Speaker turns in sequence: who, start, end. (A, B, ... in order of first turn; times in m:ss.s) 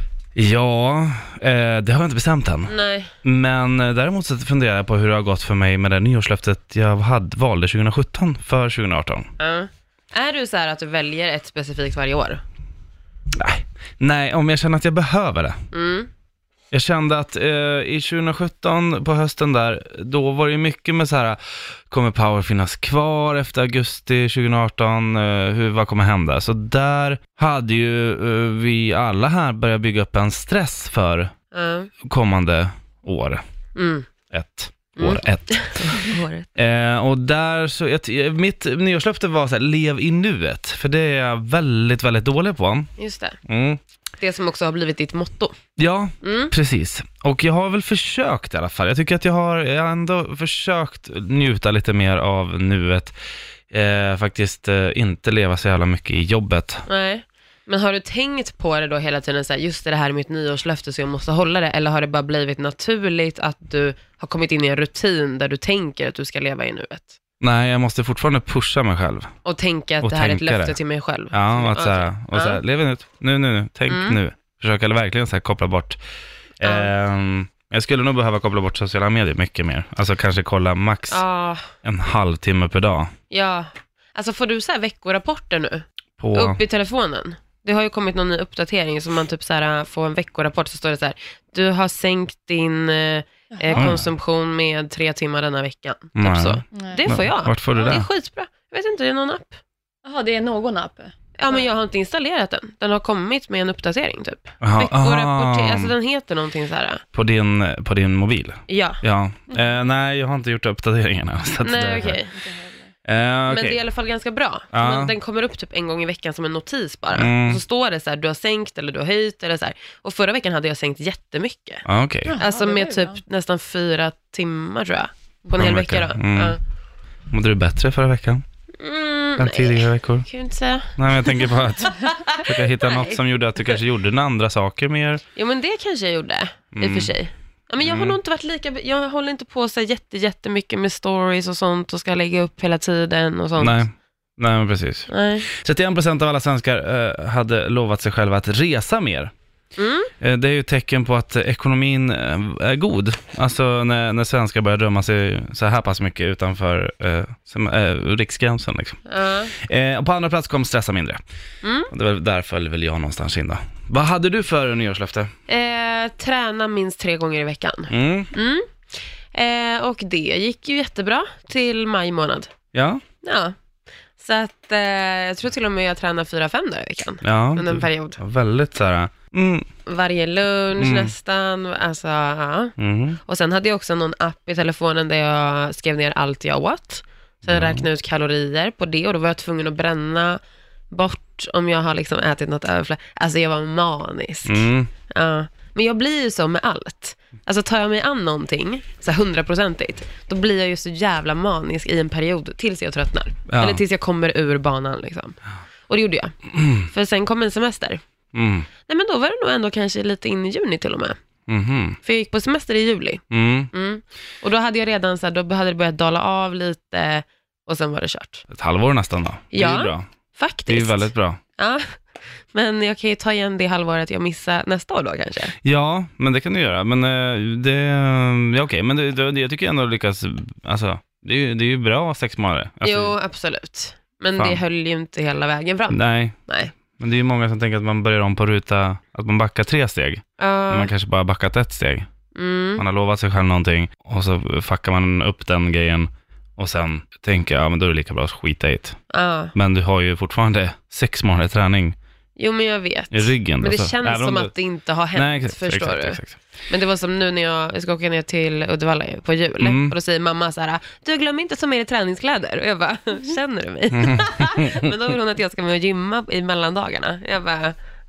0:00.4-0:09.3 A
0:02.7-0:03.1 B
0:09.4-0:12.4 B
0:13.3-0:15.6 A
0:15.7-0:16.1 B
0:16.7-0:31.3 A
0:31.5-0:31.9 B
0:32.0-0:33.4 A
0:33.8-0:34.1 B
0:34.3-0:42.9 A
0:35.0-0:36.6 B
0:43.0-0:43.4 B
0:43.5-0:43.8 A
0:44.2-0:45.6 B
0:45.8-0:53.2 A
0:46.2-0:46.5 B
0:53.7-0:56.8 A
0:56.9-1:07.2 B
1:07.4-1:09.3 A
1:09.4-1:12.6 B
1:10.0-1:10.8 A
1:11.3-1:16.0 A
1:13.9-1:14.2 B
1:16.6-1:21.2 A
1:16.6-1:16.9 B
1:21.1-1:21.7 B
1:21.8-1:23.1 A
1:23.3-1:39.6 B
1:26.2-1:26.6 A
1:33.5-1:33.8 C
1:33.8-1:34.0 A
1:36.2-1:38.1 A
1:36.8-1:37.2 C
1:40.0-1:41.1 C
1:41.4-1:47.0 B
1:44.6-1:45.9 A
1:47.1-1:52.2 A
1:48.7-1:49.0 B
1:51.6-1:52.4 B
1:51.8-1:52.9 C
1:53.0-1:53.8 A
1:53.5-2:06.6 B
1:54.7-1:55.1 A
1:57.2-1:57.6 A
2:01.8-2:02.4 A
2:02.3-2:03.2 C
2:05.6-2:06.6 A
2:07.3-2:08.4 A
2:08.8-2:13.8 B
2:09.4-2:10.3 A
2:11.0-2:15.2 A
2:15.4-2:23.8 B
2:16.7-2:17.1 A
2:17.8-2:18.2 A
2:23.6-2:29.3 A
2:25.1-2:25.5 B
2:29.8-2:30.1 B
2:30.2-2:41.2 A
2:39.1-2:39.5 B
2:41.6-2:41.9 B
2:41.9-2:45.3 A
2:45.5-2:48.7 B
2:47.9-2:48.3 A
2:49.3-2:52.5 B
2:52.7-2:53.0 A
2:53.2-2:53.6 B
2:54.2-2:58.2 B
2:57.2-2:59.7 A
2:59.9-3:02.8 B
3:00.8-3:01.1 A
3:02.8-3:03.2 A
3:03.3-3:10.4 B
3:07.4-3:07.9 A
3:10.9-3:25.4 B
3:14.5-3:14.9 A
3:23.5-3:23.8 A
3:25.9-3:28.0 B
3:26.6-3:26.8 A
3:28.3-3:28.7 A
3:28.9-3:31.2 B
3:31.5-3:32.0 A
3:32.0-3:38.5 B
3:33.3-3:33.7 A
3:38.5-3:40.1 A
3:39.5-3:42.0 B
3:40.7-3:41.4 A
3:42.5-3:45.6 B
3:45.6-3:53.2 A
3:52.8-3:56.7 B
3:55.9-3:56.4 A
3:57.0-4:02.1 A
4:00.4-4:00.9 B
4:02.4-4:02.8 B
4:02.8-4:09.0 A
4:09.1-4:09.6 B
4:09.5-4:12.0 A
4:12.4-4:27.8 B
4:13.1-4:14.5 A
4:15.1-4:16.4 A
4:19.6-4:19.9 A
4:23.9-4:24.9 A